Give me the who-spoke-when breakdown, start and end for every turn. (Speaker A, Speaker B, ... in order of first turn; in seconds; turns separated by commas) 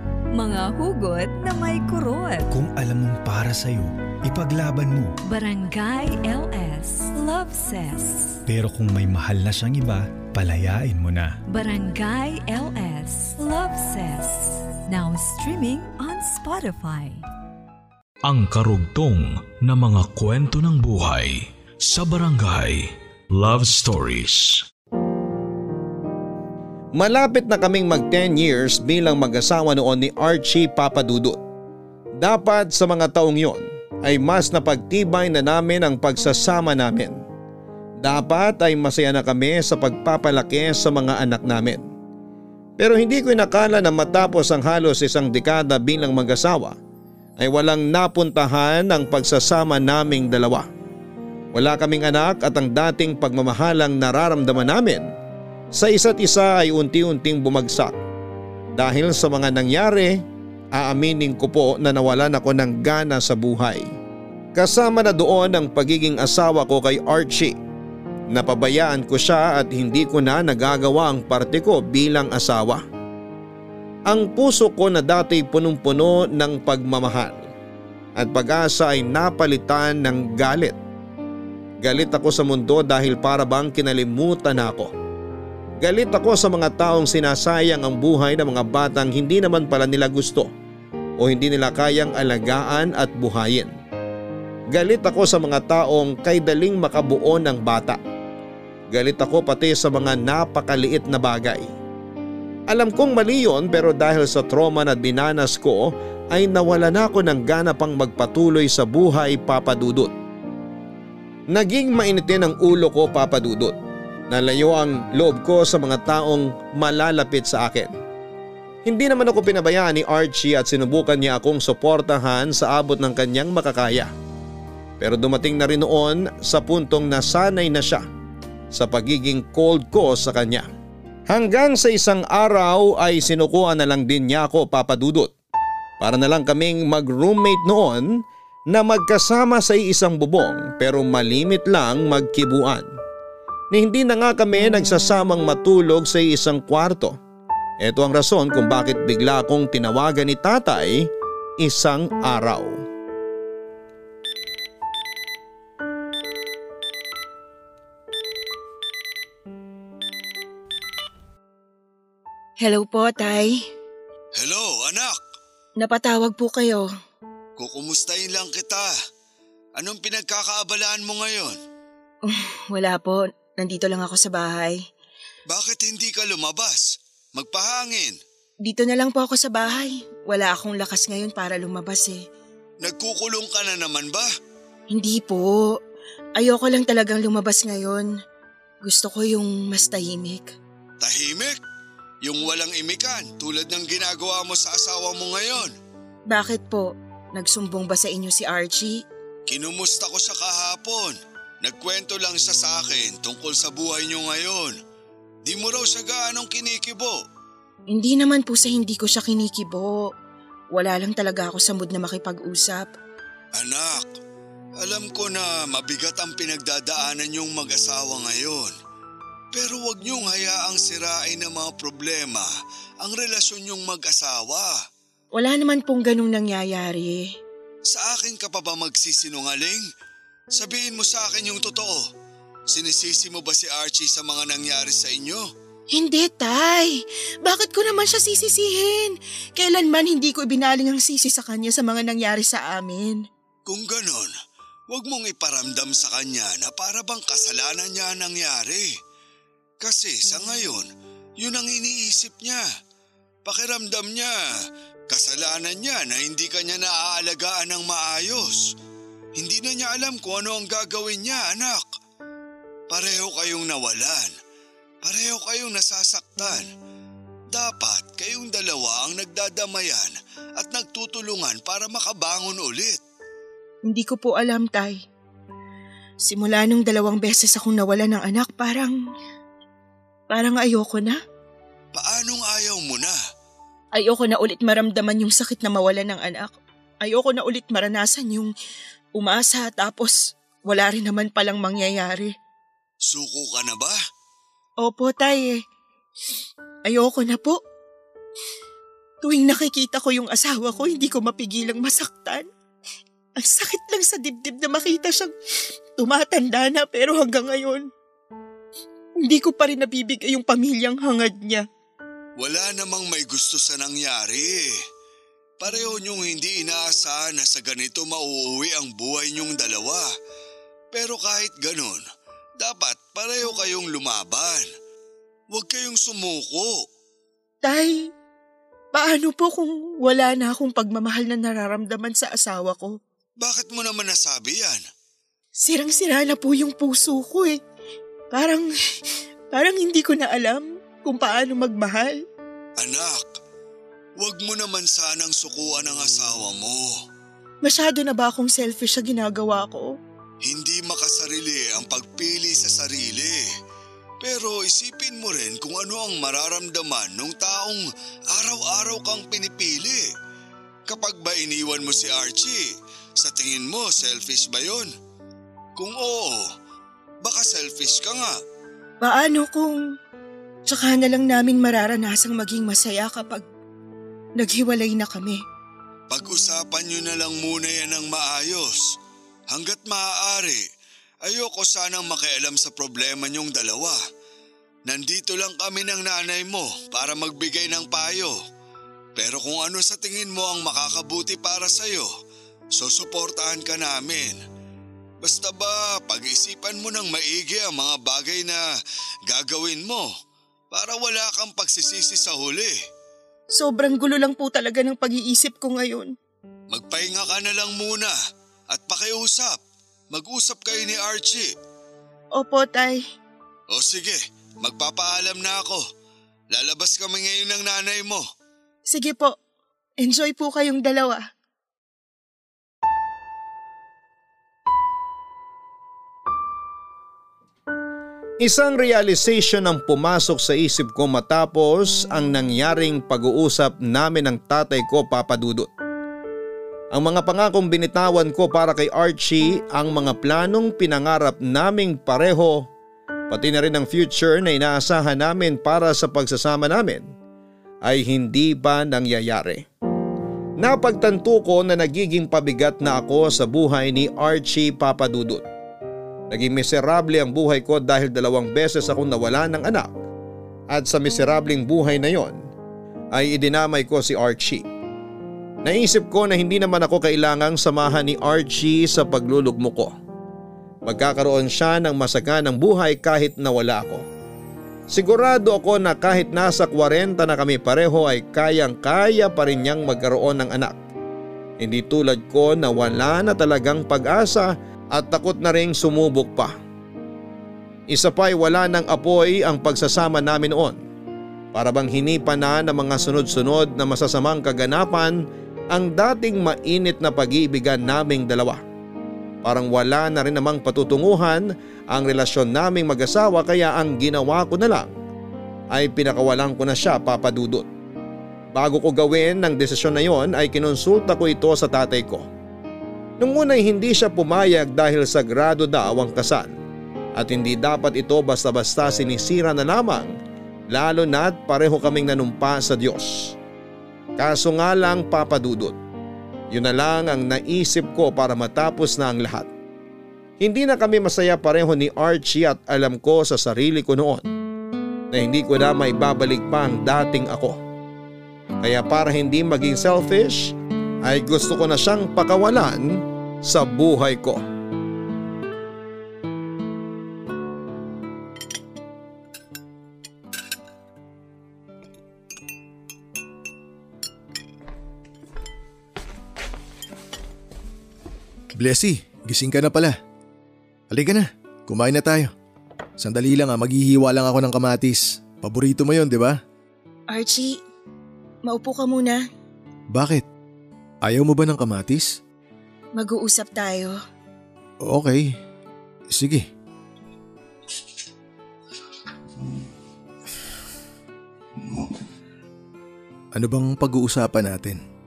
Speaker A: 0.3-2.5, Speaker B: 2.5-5.2, Speaker A: 5.3-8.4, Speaker B: 8.5-11.4, Speaker A: 11.5-17.2, Speaker C: 18.2-24.7, Speaker D: 26.9-31.4, Speaker D: 32.2-37.2, Speaker D: 38.0-41.8, Speaker D: 42.8-46.8, Speaker D: 47.4-50.7, Speaker D: 51.5-55.1, Speaker D: 55.7-58.0, Speaker D: 58.8-60.2, Speaker D: 60.8-63.9, Speaker D: 64.5-67.5, Speaker D: 68.3-72.8, Speaker D: 74.1-77.5, Speaker D: 78.2-80.8, Speaker D: 81.8-84.9, Speaker D: 85.8-90.5, Speaker D: 91.2-93.7, Speaker D: 94.7-98.0, Speaker D: 98.9-101.7, Speaker D: 102.7-110.1, Speaker D: 111.5-113.8, Speaker D: 114.3-117.9, Speaker D: 118.8-124.1, Speaker D: 125.0-128.1, Speaker D: 128.7-130.7, Speaker D: 131.3-135.3, Speaker D: 136.0-142.9, Speaker D: 143.7-147.2, Speaker D: 147.8-152.8, Speaker E: 162.6-163.6, Speaker F: 164.4-165.2, Speaker E: 165.8-166.9, Speaker F: 167.6-168.9, Speaker F: 169.8-171.6, Speaker E: 172.2-174.8, Speaker F: 175.5-178.2, Speaker E: 178.6-182.2, Speaker F: 182.8-184.3, Speaker E: 184.9-185.8, Speaker E: 186.4-188.1, Speaker E: 188.8-190.5, Speaker F: 191.0-191.6, Speaker F: 192.2-195.7, Speaker E: 196.3-199.0, Speaker F: 199.5-204.8, Speaker F: 205.5-207.2, Speaker E: 207.9-210.1, Speaker E: 210.7-212.9, Speaker F: 213.6-214.1, Speaker F: 214.8-218.7, Speaker F: 219.5-222.5, Speaker F: 223.0-224.8, Speaker E: 225.3-227.3, Speaker F: 227.9-229.9, Speaker F: 230.5-232.1, Speaker F: 232.7-235.5, Speaker E: 235.9-243.2, Speaker F: 243.7-244.3, Speaker F: 244.9-248.9, Speaker F: 249.8-250.9, Speaker F: 251.4-252.7, Speaker F: 253.5-254.4, Speaker F: 255.1-258.7, Speaker F: 259.4-261.9, Speaker F: 262.9-264.3, Speaker F: 265.0-266.7, Speaker F: 267.5-273.0, Speaker E: 273.9-275.0, Speaker E: 276.2-279.0, Speaker E: 280.3-281.2, Speaker F: 281.9-283.2, Speaker E: 283.9-288.5, Speaker E: 289.1-292.3, Speaker F: 293.0-294.0, Speaker E: 294.8-295.6, Speaker E: 296.9-297.6, Speaker E: 299.2-302.5, Speaker E: 303.4-305.3, Speaker E: 306.0-307.9, Speaker E: 309.2-311.6, Speaker F: 312.4-314.8, Speaker F: 315.6-320.1, Speaker F: 320.9-322.0, Speaker F: 322.6-324.7, Speaker F: 325.5-326.8, Speaker E: 327.6-328.0, Speaker E: 328.9-332.9, Speaker F: 333.4-334.8, Speaker E: 335.6-337.6, Speaker E: 338.3-338.7, Speaker E: 339.5-342.2, Speaker F: 342.8-343.2, Speaker F: 344.2-346.9, Speaker E: 347.6-349.9, Speaker F: 350.4-353.5, Speaker F: 354.2-360.1, Speaker F: 360.9-362.7, Speaker F: 363.2-364.9, Speaker F: 365.8-366.5, Speaker F: 367.2-368.3, Speaker E: 369.0-369.8, Speaker E: 370.7-373.4, Speaker E: 374.4-375.4, Speaker F: 376.1-378.9, Speaker F: 379.5-380.6, Speaker F: 381.2-384.0, Speaker F: 384.9-388.4, Speaker F: 389.2-392.1, Speaker F: 392.8-394.4, Speaker F: 395.2-398.6, Speaker F: 399.3-400.1, Speaker F: 400.7-402.8, Speaker E: 403.6-406.1, Speaker F: 406.7-408.1, Speaker F: 408.7-409.6, Speaker F: 410.1-411.5, Speaker E: 412.4-413.0, Speaker F: 413.7-415.8, Speaker F: 416.5-418.2, Speaker E: 418.9-419.4, Speaker E: 420.0-421.2, Speaker D: 428.4-435.7, Speaker D: 436.9-442.7, Speaker D: 443.3-447.1, Speaker D: 447.8-449.6, Speaker D: 450.6-455.4, Speaker D: 456.3-459.9, Speaker D: 460.7-462.4, Speaker D: 463.1-464.7, Speaker D: 465.6-469.9, Speaker D: 470.9-474.0, Speaker D: 474.9-480.8, Speaker D: 481.6-486.6, Speaker D: 487.9-490.8, Speaker D: 491.5-495.2, Speaker D: 495.7-498.6, Speaker D: 499.4-504.9, Speaker D: 505.7-507.7, Speaker D: 508.5-512.3, Speaker D: 513.2-516.5, Speaker D: 517.2-520.1, Speaker D: 520.7-523.4, Speaker D: 524.2-525.8, Speaker D: 526.5-529.5, Speaker D: 530.4-534.3, Speaker D: 535.1-537.6, Speaker D: 538.6-544.4, Speaker G: 558.5-560.0, Speaker G: 560.9-562.3, Speaker G: 563.0-566.4, Speaker E: 567.1-567.6, Speaker E: 568.5-569.2, Speaker G: 569.9-570.2, Speaker G: 571.0-572.2, Speaker E: 573.0-574.0, Speaker G: 574.8-575.4, Speaker G: 576.1-576.5, Speaker G: 583.4-584.8